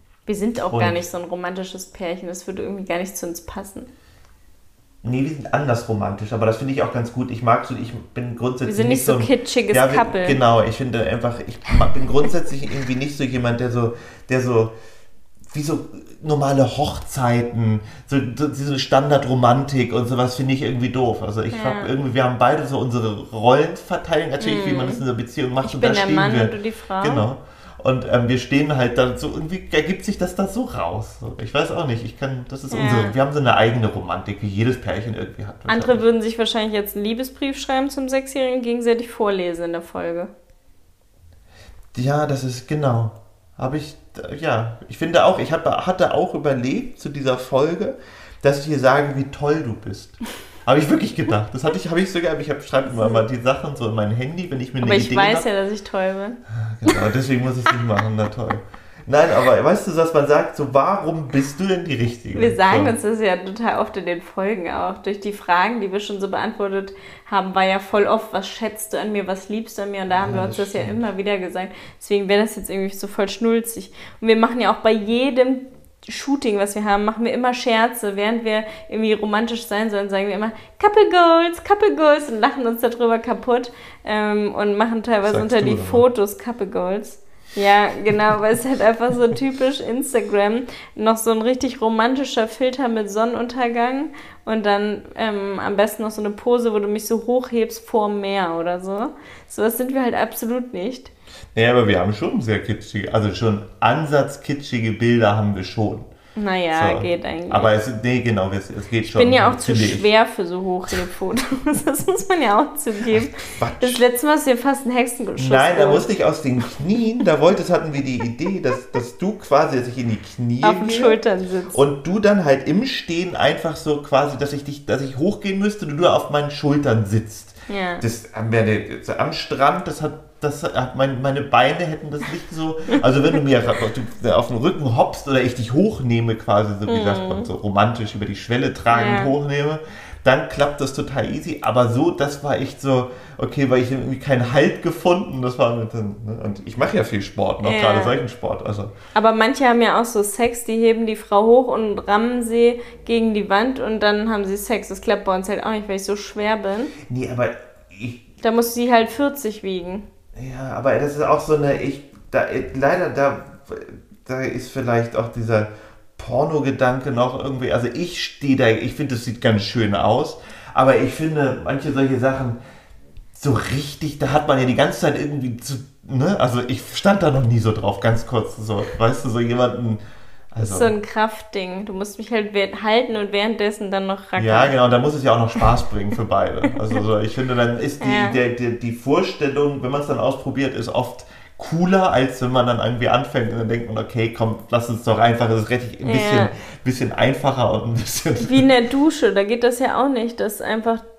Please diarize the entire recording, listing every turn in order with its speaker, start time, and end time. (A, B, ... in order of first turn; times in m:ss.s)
0:00.3-0:03.9 A
0:00.7-0:01.0 B
0:05.0-0:14.7 B
0:08.6-0:10.4 A
0:15.5-0:36.0 B
0:21.5-0:21.9 A
0:24.4-0:25.0 A
0:25.6-0:27.2 A
0:32.7-0:33.1 A
0:35.7-0:40.3 A
0:41.9-0:55.4 B
0:52.9-0:53.2 A
0:54.8-0:57.0 A
0:56.5-1:03.0 B
1:02.3-1:41.1 A
1:10.1-1:11.0 B
1:25.2-1:26.0 B
1:41.5-1:46.1 B
1:46.4-1:47.7 A
1:46.7-1:50.1 B
1:49.1-1:56.1 A
1:53.1-1:54.0 B
1:55.4-2:01.2 B
2:00.6-2:01.8 A
2:01.7-2:28.9 B
2:07.7-2:08.0 A
2:16.9-2:17.5 A
2:18.9-2:19.3 A
2:27.6-2:28.2 A
2:29.1-2:36.9 A
2:37.0-2:38.3 B
2:38.4-2:40.0 A
2:40.4-2:52.6 B
2:53.3-3:00.0 B
3:00.5-3:00.9 B
3:00.6-3:04.8 A
3:04.4-3:18.7 B
3:08.0-3:08.4 A
3:16.0-3:16.5 A
3:18.4-3:21.0 A